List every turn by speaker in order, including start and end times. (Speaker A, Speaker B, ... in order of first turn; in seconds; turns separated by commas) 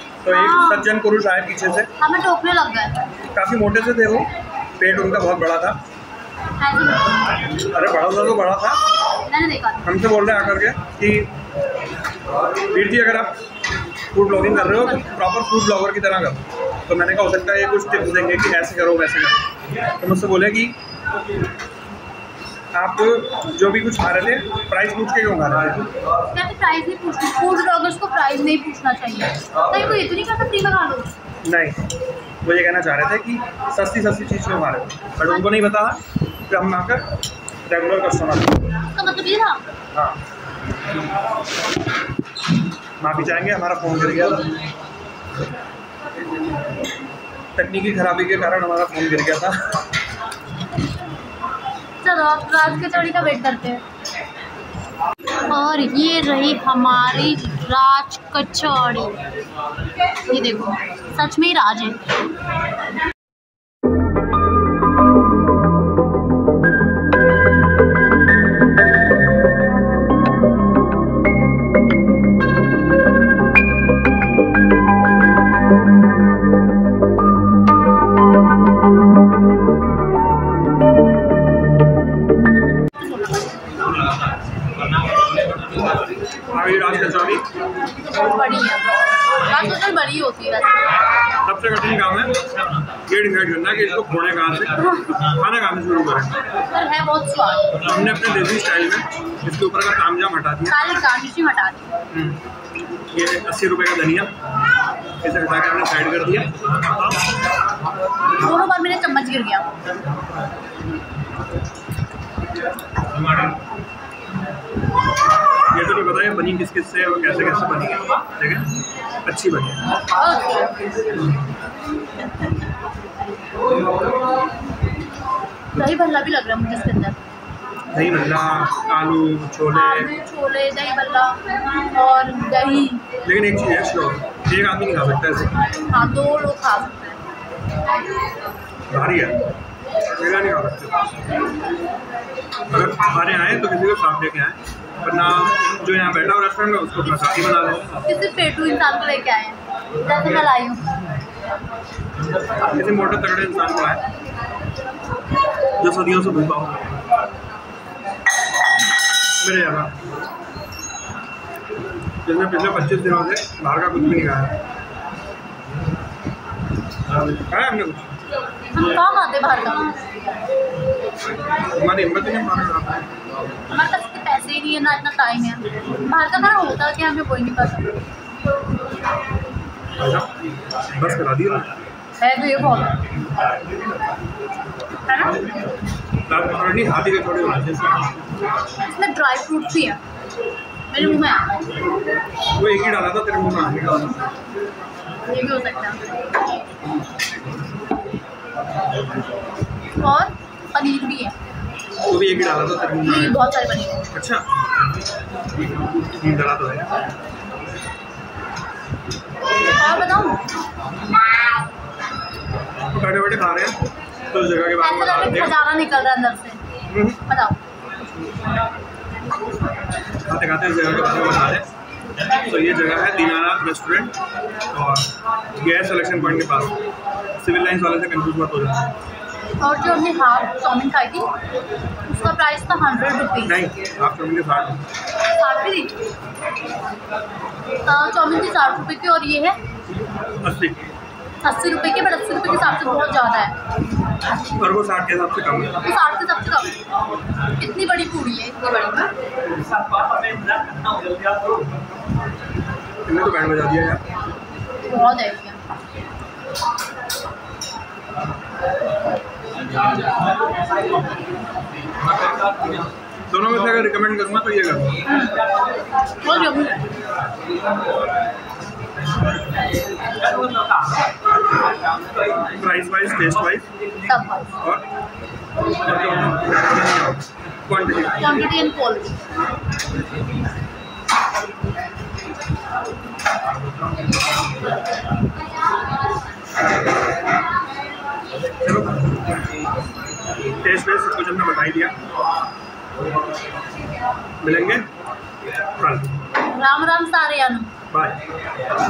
Speaker A: 0.2-1.9, Speaker B: 0.3-0.9, Speaker B: 2.0-3.0, Speaker A: 3.3-5.8, Speaker B: 6.6-7.3, Speaker A: 7.5-8.8, Speaker B: 9.2-9.9, Speaker A: 9.8-11.3, Speaker A: 12.6-13.3, Speaker A: 14.1-19.4, Speaker A: 20.0-20.8, Speaker A: 22.7-25.9, Speaker B: 26.3-31.1, Speaker A: 31.4-31.9, Speaker A: 32.4-37.0, Speaker A: 37.7-38.7, Speaker B: 38.9-39.6, Speaker A: 39.9-40.2, Speaker A: 43.0-44.5, Speaker A: 47.6-49.7, Speaker B: 52.0-53.8, Speaker B: 55.5-59.2, Speaker B: 60.3-62.0, Speaker B: 83.0-83.5, Speaker A: 86.5-87.5, Speaker B: 88.0-90.9, Speaker A: 91.4-92.4, Speaker A: 93.1-96.4, Speaker B: 96.7-97.8, Speaker A: 97.8-100.8, Speaker B: 100.7-101.9, Speaker A: 102.1-102.4, Speaker A: 103.1-104.3, Speaker A: 105.2-107.2, Speaker B: 108.4-109.7, Speaker A: 115.7-118.7, Speaker A: 119.2-119.9, Speaker B: 120.1-120.8, Speaker B: 125.7-127.2, Speaker A: 127.9-130.1, Speaker B: 129.7-133.1, Speaker A: 133.2-135.6, Speaker B: 135.9-137.2, Speaker A: 138.9-139.4, Speaker A: 140.1-141.0, Speaker A: 142.7-147.9, Speaker B: 147.9-150.9, Speaker A: 152.7-154.0, Speaker A: 155.8-157.0, Speaker A: 159.3-159.9, Speaker A: 162.2-164.6, Speaker A: 167.2-168.1, Speaker B: 168.7-170.0, Speaker A: 171.6-173.1, Speaker B: 173.7-178.0, Speaker A: 180.0-180.3, Speaker A: 180.9-181.7, Speaker B: 182.2-183.0, Speaker B: 185.1-185.4, Speaker A: 186.3-188.1, Speaker B: 188.9-190.0, Speaker B: 190.9-191.6, Speaker A: 192.6-194.3, Speaker B: 195.3-196.1, Speaker B: 200.0-201.3, Speaker A: 202.1-203.4, Speaker B: 203.0-204.0, Speaker A: 204.1-204.4, Speaker A: 206.2-206.9, Speaker B: 209.8-210.4, Speaker A: 212.9-213.8, Speaker A: 214.3-215.6, Speaker B: 214.8-216.6, Speaker A: 216.9-217.2, Speaker B: 217.3-217.6, Speaker A: 220.2-221.7, Speaker A: 222.3-224.1, Speaker A: 224.7-226.8, Speaker A: 227.4-228.8, Speaker B: 229.6-231.3, Speaker B: 232.1-233.6, Speaker A: 233.4-234.8, Speaker B: 235.3-235.9, Speaker B: 237.8-239.6, Speaker A: 240.4-240.8, Speaker B: 241.4-243.6, Speaker A: 244.4-245.8, Speaker B: 245.8-246.8, Speaker B: 247.5-249.2, Speaker A: 250.0-251.5, Speaker A: 253.1-254.0, Speaker B: 254.9-255.6, Speaker A: 263.3-265.0, Speaker B: 265.1-265.4, Speaker B: 266.2-266.9, Speaker A: 272.5-273.7, Speaker B: 274.0-274.5, Speaker A: 274.6-274.9, Speaker A: 275.8-278.3, Speaker B: 278.2-279.2, Speaker A: 288.6-289.1, Speaker A: 290.6-291.9, Speaker A: 294.4-294.9, Speaker A: 295.8-296.2, Speaker B: 296.4-297.7, Speaker A: 297.9-298.2